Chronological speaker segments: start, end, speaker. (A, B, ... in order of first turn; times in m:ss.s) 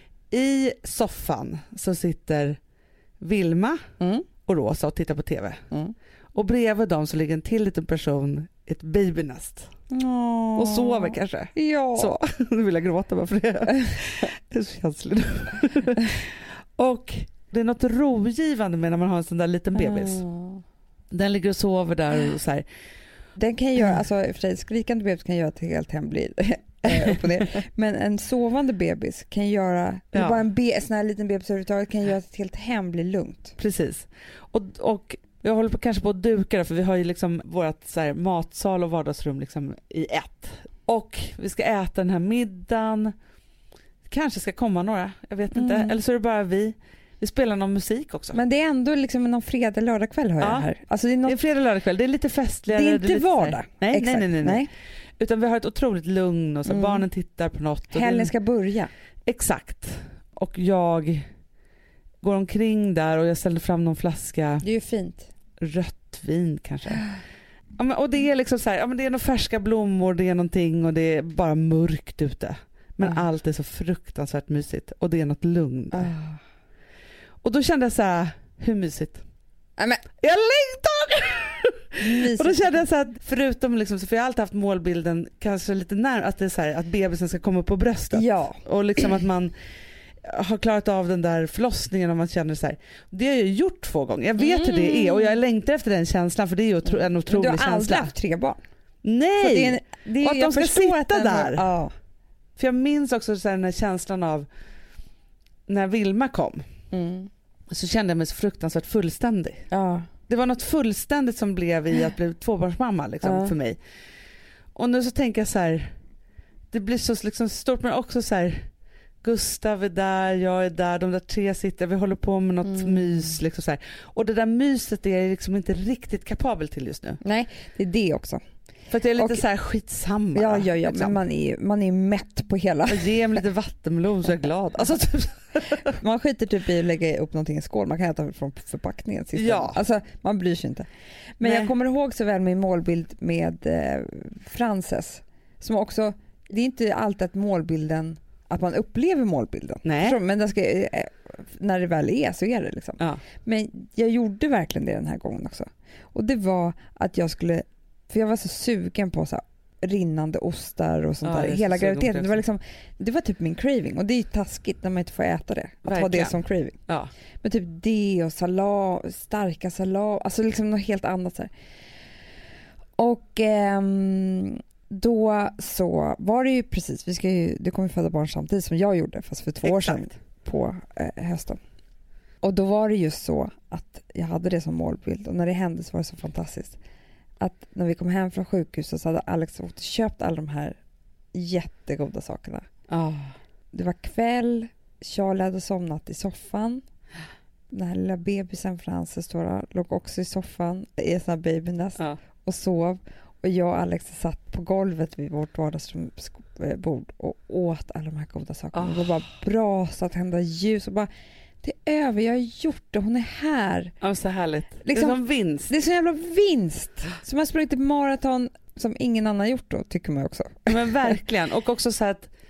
0:00.3-0:02.6 A
0:03.2-0:03.8 A
0:04.0-0:04.3 B
0:04.5-0:05.6 A
0:06.4-0:09.7 A
0:09.9-0:12.2 B
0:10.6-0:20.2 A
0:13.7-0:14.0 B
0:19.8-0:20.6 B
0:21.1-0:22.7 A
0:23.4-0:33.6 B
0:26.8-0:27.6 A
0:30.1-0:30.4 A
0:33.6-0:43.1 A
0:44.1-0:48.4 A
0:45.5-0:46.0 B
0:48.3-0:51.4 B
0:50.4-0:50.7 A
0:51.2-0:54.7 A
0:52.7-0:54.7 B
0:55.2-0:58.3 A
0:56.7-0:57.0 B
0:57.9-0:58.9 B
0:59.3-1:01.3 A
1:02.2-1:04.6 A
1:04.6-1:05.3 B
1:05.6-1:07.1 A
1:07.8-1:16.1 A
1:15.9-1:16.4 B
1:17.4-1:19.2 A
1:19.8-1:20.0 B
1:20.2-1:29.5 A
1:22.0-1:22.8 B
1:28.1-1:28.6 B
1:30.2-1:38.1 A
1:34.4-1:35.4 B
1:36.8-1:38.6 B
1:39.0-1:41.6 A
1:39.4-1:41.9 B
1:42.6-1:44.5 A
1:45.7-1:46.6 A
1:46.9-1:47.3 B
1:47.7-1:49.6 A
1:49.7-1:50.1 B
1:50.3-1:53.8 A
1:53.2-1:53.5 B
1:54.8-1:55.9 A
1:56.7-1:58.7 A
1:59.2-2:07.2 A
2:02.6-2:03.4 B
2:07.2-2:08.4 B
2:08.9-2:11.2 A
2:09.2-2:09.4 B
2:10.4-2:13.4 B
2:12.9-2:16.0 A
2:15.9-2:20.9 B
2:19.4-2:19.8 A
2:21.4-2:46.8 B
2:21.4-2:21.7 A
2:29.8-2:30.2 A
2:41.2-2:42.4 A
2:45.8-2:47.1 A
2:47.4-2:51.5 B
2:53.0-3:01.6 B
2:59.6-3:00.0 A
3:02.4-3:06.8 B
3:07.4-3:10.8 B
3:11.3-3:12.7 B
3:12.9-3:13.3 A
3:13.7-3:16.8 B
3:17.7-3:31.1 B
3:28.7-3:29.1 A
3:31.6-3:33.9 B
3:34.0-3:35.7 A
3:34.8-3:35.2 B
3:35.7-3:40.7 B
3:40.7-3:42.3 A